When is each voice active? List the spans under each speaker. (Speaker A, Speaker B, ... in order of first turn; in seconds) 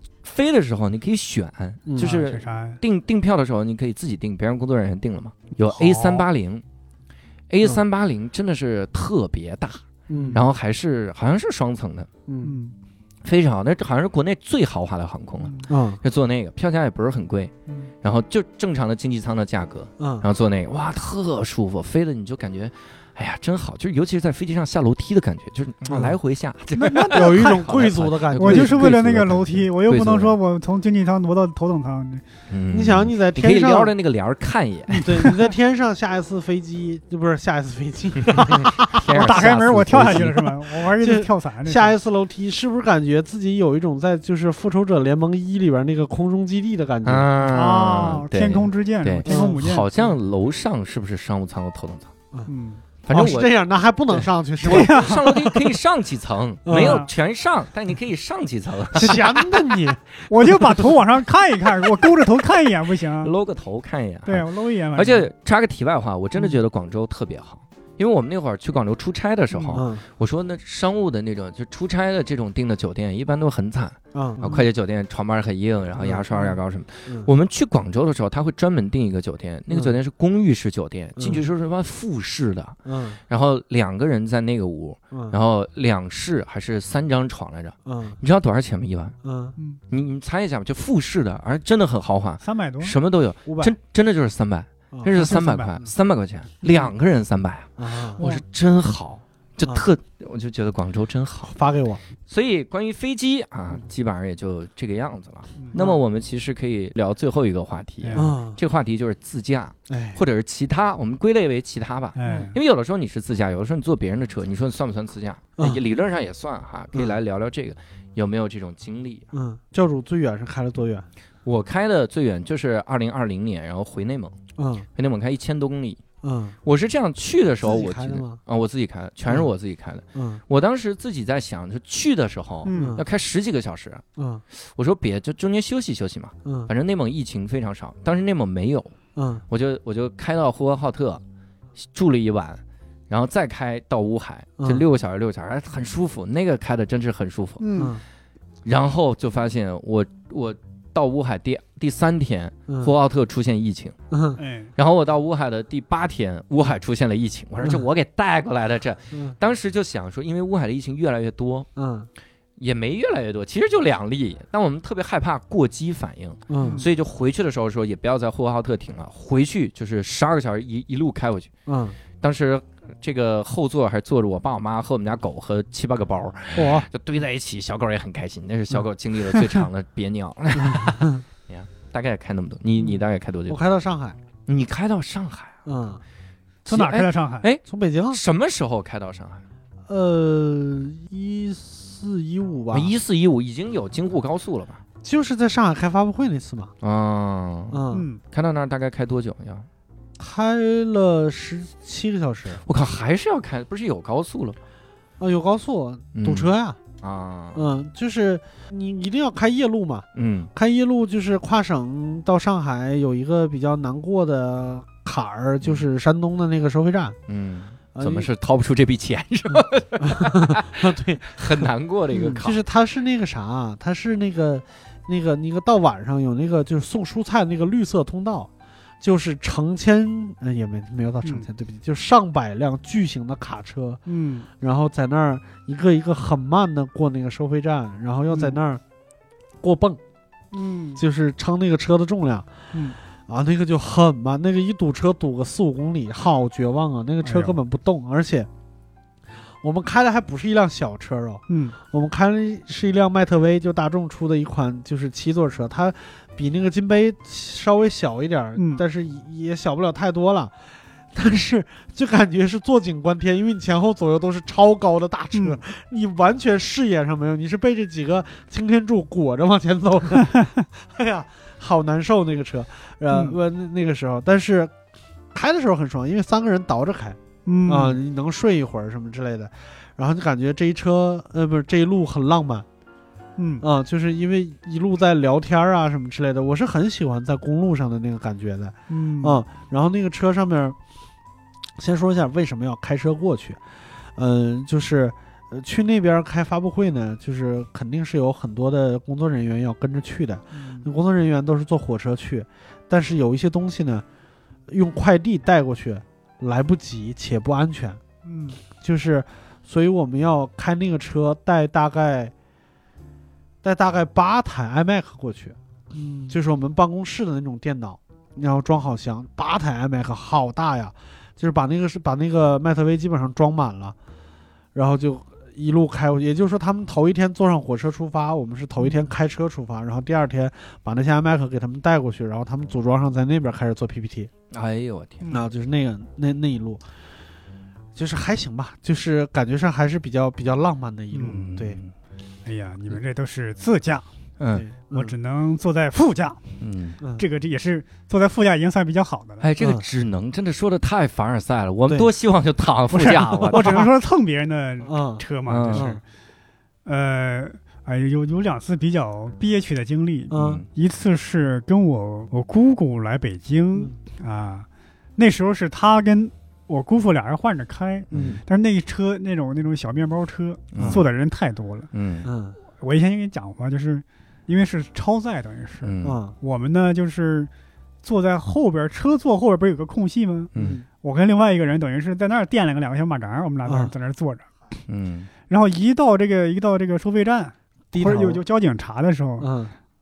Speaker A: 0.2-6.6, 7.5-12.1, 13.2-30.4, 32.5-35.1, 38.9-40.5, 47.0-52.1, 53.0-53.5, 54.1-59.7, 63.2-82.8, 83.3-89.2, 89.9-101.5, 102.3-119.2, 121.5-124.4, 125.0-126.0, 126.6-134.0, 134.5-138.9, 139.5-141.2, 141.8-147.8, 148.6-154.0, 154.8-161.7, 162.6-171.5, 172.2-183.6, 184.5-185.6, 186.7-189.4, 192.7-194.8, 196.8-197.8, 198.3-199.7, 202.6-204.6, 206.1-206.5, 207.0-207.6, 210.1-210.5, 217.3-222.6, 334.5-335.3, 341.3-341.9, 344.4-344.6, 346.6-347.0, 349.4-353.8, 355.4-356.0, 360.3-360.6, 368.1-368.4, 370.7-371.0, 371.9-372.3, 375.8-376.2, 380.5-380.8, 384.9-385.3
Speaker B: 1.9-2.1, 10.1-10.4, 12.3-12.6, 15.7-16.0, 20.0-20.3, 25.9-26.2, 27.1-29.0, 32.7-33.9, 35.0-39.0, 41.0-47.3, 49.2-49.6, 53.1-55.6, 56.6-57.0, 58.9-60.0, 69.7-70.0, 74.1-74.6, 76.0-76.5, 79.7-80.0, 81.2-81.5, 82.9-83.2, 85.1-85.4, 87.8-88.2, 89.2-89.5, 93.5-93.7, 94.9-95.9, 97.8-98.2, 101.5-102.0, 105.7-106.0, 108.2-108.6, 109.9-110.2, 119.3-121.1, 124.5-124.9, 126.2-126.5, 127.6-128.4, 130.1-130.4, 132.7-133.0, 134.2-134.4, 136.4-136.7, 139.2-139.4, 144.6-144.8, 152.7-152.9, 154.1-154.4, 161.8-162.1, 166.5-166.8, 171.7-172.0, 176.5-176.9, 180.6-181.2, 182.8-184.2, 185.7-186.0, 187.6-188.2, 189.9-192.9, 195.0-196.7, 197.7-198.1, 200.2-202.6, 205.2-206.8, 207.6-217.2, 217.9-218.3, 219.5-228.5, 229.0-234.0, 234.6-238.8, 239.6-240.0, 241.0-242.5, 243.3-248.5, 249.6-274.7, 275.3-282.6, 283.6-290.8, 291.8-293.6, 294.1-304.1, 304.7-308.0, 308.8-312.3, 313.6-315.6, 316.3-323.9, 324.7-334.3, 335.3-336.8, 337.9-341.8, 344.5-345.1, 349.6-349.8, 353.6-353.9, 354.8-356.0, 360.3-360.6, 368.1-368.4, 370.8-371.0, 372.2-372.6, 376.0-376.3, 380.6-380.8, 383.6-383.9, 387.9-388.4, 389.4-389.7
Speaker C: 2.0-2.8, 5.7-6.2, 10.1-10.4, 12.4-12.7, 15.4-15.7, 26.8-27.6, 28.4-32.2, 34.9-35.5, 39.1-41.9, 47.5-49.9, 52.5-52.8, 54.6-55.3, 56.7-57.1, 60.3-63.3, 64.2-65.3, 69.5-69.8, 92.4-92.9, 95.1-95.8, 108.0-108.3, 112.2-112.6, 132.6-133.0, 147.6-148.0, 154.4-154.7, 166.6-166.9, 186.7-187.4, 197.9-198.2, 234.1-234.5, 240.5-241.0, 247.2-247.6, 251.5-251.8, 258.6-258.8, 265.3-265.6, 277.4-278.0, 283.4-283.6, 288.9-289.4, 300.5-300.9, 308.2-308.6, 315.9-316.4, 328.8-329.1, 341.1-341.4, 342.4-344.1, 344.9-346.6, 347.2-349.4, 352.9-355.9, 356.8-371.9, 372.8-377.5, 378.0-380.5, 381.0-384.5, 385.5-389.5